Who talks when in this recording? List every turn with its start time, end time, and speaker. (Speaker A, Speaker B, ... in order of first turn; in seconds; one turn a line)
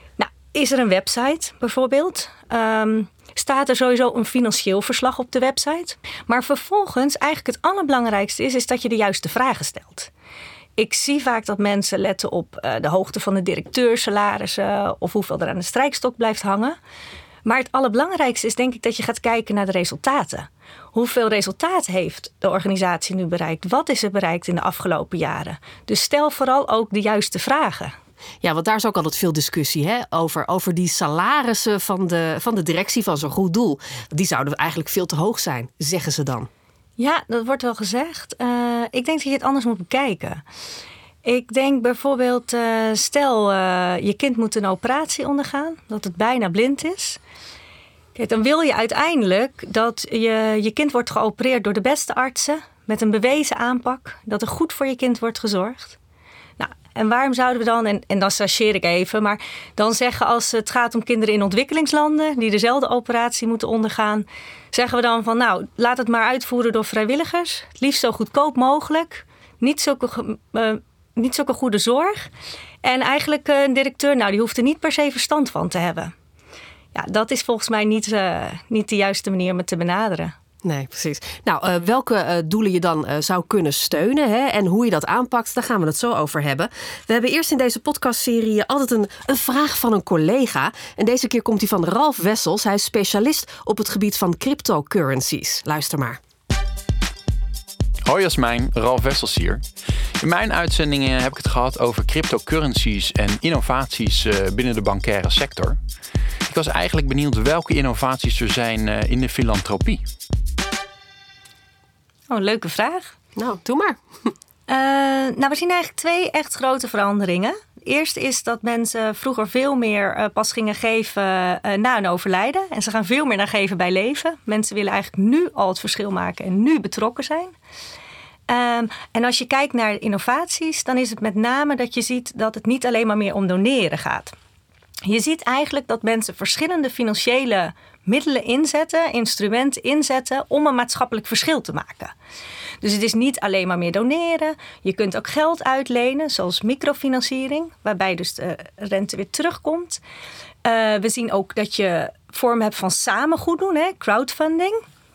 Speaker A: 0.2-10.1
Speaker A: 10.8-16.8
Speaker A: 17.4-27.9
Speaker B: 28.4-36.5
Speaker A: 37.0-40.4
Speaker A: 41.2-47.2
Speaker A: 48.1-56.0
Speaker A: 56.6-72.3
Speaker A: 72.8-76.1
Speaker A: 76.9-80.3
Speaker B: 80.6-96.2
Speaker C: 98.0-99.6
Speaker C: 100.2-105.8
Speaker C: 106.5-110.0
Speaker A: 112.3-113.2
Speaker B: 113.3-114.0
Speaker A: 114.7-127.5
Speaker A: 128.5-134.3
Speaker A: 135.0-142.1
Speaker A: 142.8-150.0
Speaker A: 150.6-154.8